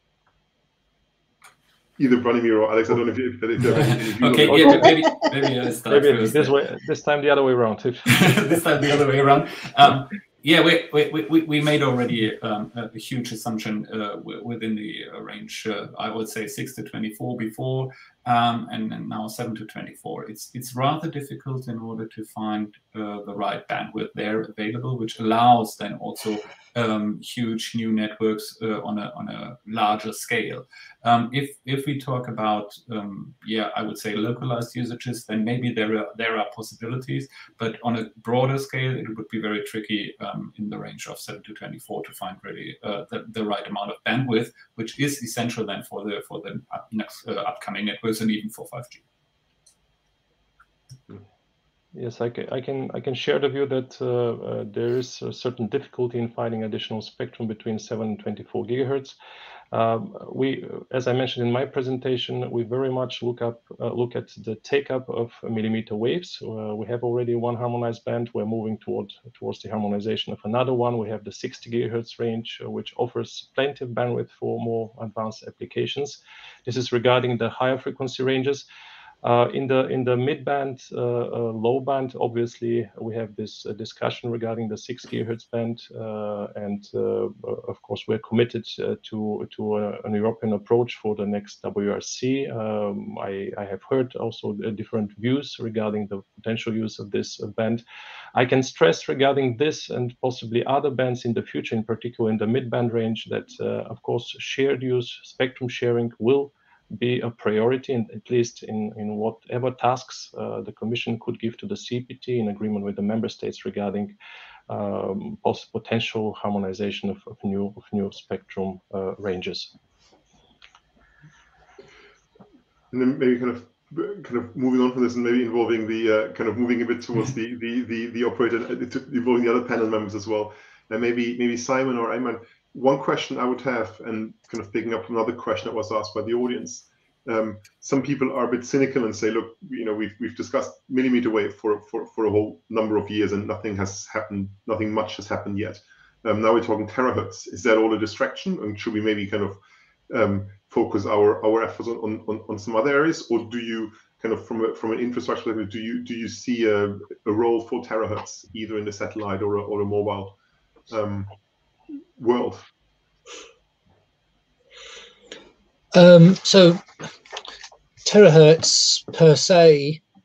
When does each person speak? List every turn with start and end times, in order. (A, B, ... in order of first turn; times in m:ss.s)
0:02.0-0:04.7 A
0:03.7-0:06.6 B
0:04.5-0:05.1 C
0:05.9-0:08.0 C
0:08.1-0:49.0 B
0:51.9-0:59.2 C
0:59.7-1:18.6 C
1:19.2-1:37.8 C
1:38.3-1:54.1 C
1:54.7-1:59.7 C
2:02.9-2:29.6 A
2:30.1-2:40.4 A
2:40.9-2:41.3 A
2:42.2-2:42.6 A
2:45.9-2:46.8 D
2:48.0-2:50.0 D